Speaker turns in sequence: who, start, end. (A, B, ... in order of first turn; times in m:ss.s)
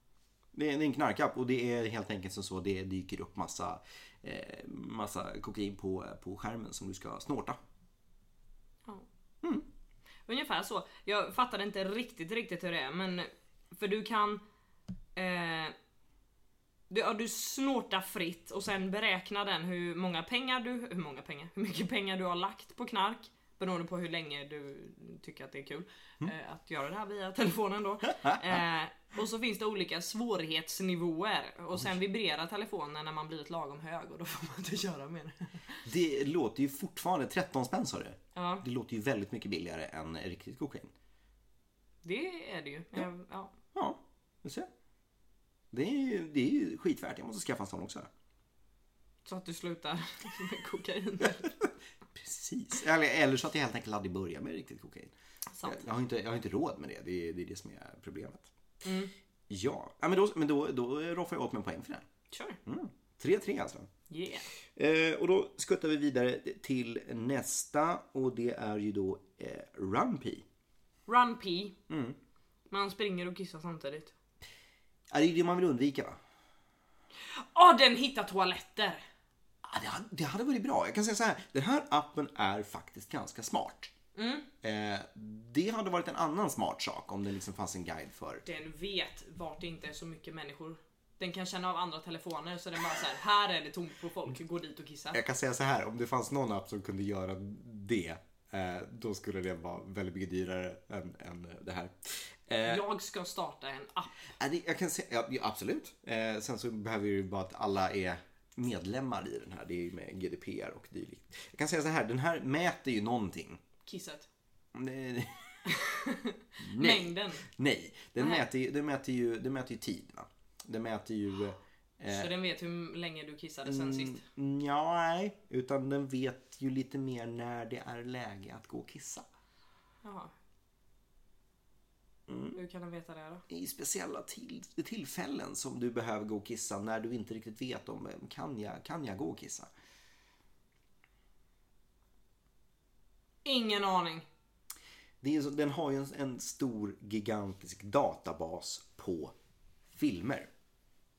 0:00.5-0:07.6 A
0:10.3-0:14.4 B
0:15.1-0:15.7 B
0:16.9-0:35.8 B
0:28.2-0:28.6 A
0:35.8-0:40.9 A
0:38.3-0:38.6 B
0:42.0-0:43.5 B
0:43.7-0:44.7 A
0:45.7-0:48.1 A
0:49.2-0:51.5 B
0:51.2-0:55.1 A
0:55.5-0:55.8 B
0:55.6-0:58.5 A
0:58.8-0:59.1 B
0:59.5-1:02.0 A
1:02.3-1:02.6 B
1:02.6-1:03.9 A
1:04.1-1:04.5 B
1:04.7-1:10.4 A
1:11.1-1:11.7 B
1:11.9-1:12.2 A
1:12.7-1:14.1 B
1:15.1-1:16.2 A
1:17.2-1:19.0 B
1:19.6-1:23.9 A
1:24.1-1:24.5 B
1:24.6-1:28.4 A
1:28.4-1:35.2 B
1:35.1-1:42.8 A
1:42.6-1:44.2 B
1:44.4-1:53.6 A
1:53.8-1:54.3 B
1:54.7-1:55.6 A
1:55.6-1:57.4 B
1:56.6-2:02.3 A
1:58.2-1:58.4 B
2:02.1-2:04.2 B
2:03.6-2:09.2 A
2:10.0-2:10.3 B
2:12.3-2:12.6 A
2:12.5-2:13.4 B
2:13.5-2:19.7 A
2:23.4-2:24.2 B
2:25.2-2:29.3 A
2:29.9-2:30.5 A